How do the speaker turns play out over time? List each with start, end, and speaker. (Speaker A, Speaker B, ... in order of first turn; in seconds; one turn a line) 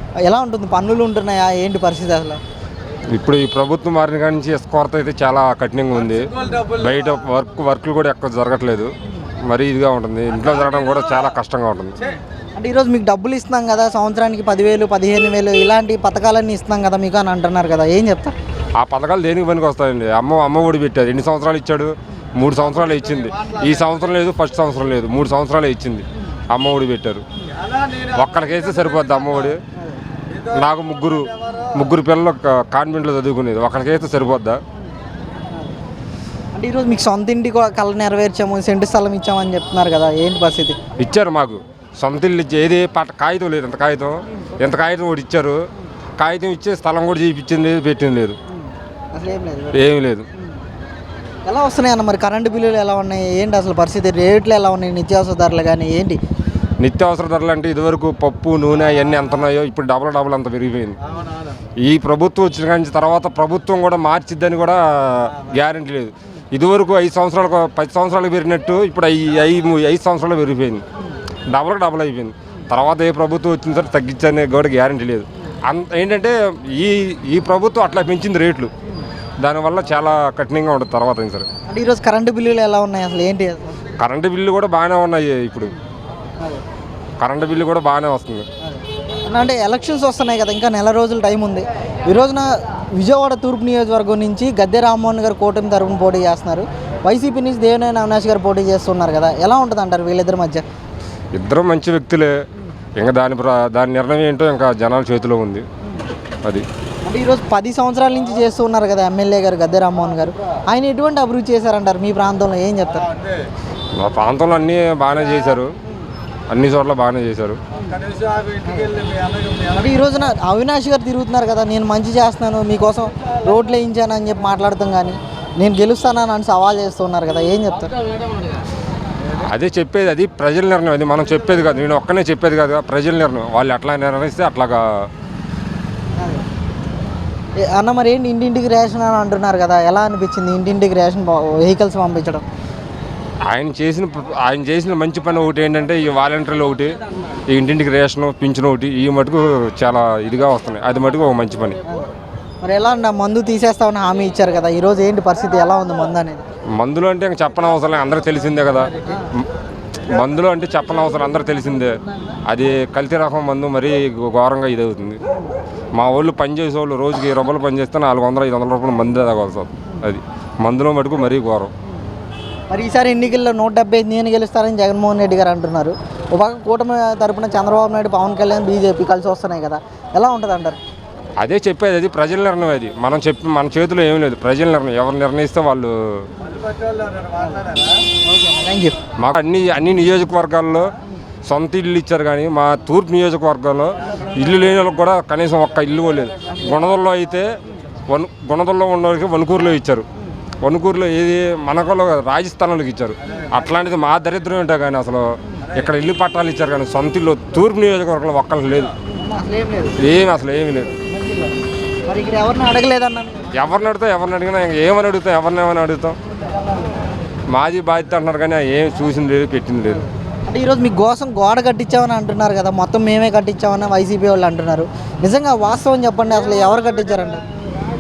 Speaker A: 0.2-2.4
Speaker B: 3.1-8.9
Speaker B: 9.4-12.0
Speaker A: 12.6-18.3
Speaker B: 18.8-27.2
Speaker B: 28.0-29.6
Speaker B: 30.4-34.6
Speaker A: 36.5-40.8
Speaker B: 41.0-45.6
Speaker B: 46.2-48.4
Speaker A: 49.1-49.8
Speaker B: 49.7-50.3
Speaker A: 51.5-56.2
Speaker B: 56.8-61.0
Speaker B: 61.8-70.8
Speaker B: 71.5-78.7
Speaker B: 79.4-81.5
Speaker A: 81.7-83.8
Speaker B: 84.0-85.7
Speaker B: 87.2-88.5
Speaker A: 88.8-100.6
Speaker B: 101.3-102.3
Speaker B: 103.0-105.6
Speaker A: 107.0-113.1
Speaker B: 114.0-115.7
Speaker B: 116.5-117.6
Speaker A: 118.6-119.0
Speaker A: 119.7-127.9
Speaker B: 129.4-135.1
Speaker A: 136.2-136.4
Speaker A: 137.6-142.4
Speaker B: 143.4-151.8
Speaker A: 152.6-156.4
Speaker B: 156.8-158.9
Speaker B: 160.0-165.2
Speaker B: 165.9-171.7
Speaker A: 172.7-180.8
Speaker B: 181.4-186.3
Speaker A: 188.3-188.9
Speaker B: 189.2-190.9
Speaker B: 191.4-197.5
Speaker B: 198.1-200.1
Speaker B: 200.6-208.9
Speaker A: 209.3-210.0
Speaker B: 210.0-210.9
Speaker A: 212.1-213.4
Speaker B: 213.5-216.2
Speaker B: 217.5-220.0
Speaker A: 220.5-227.4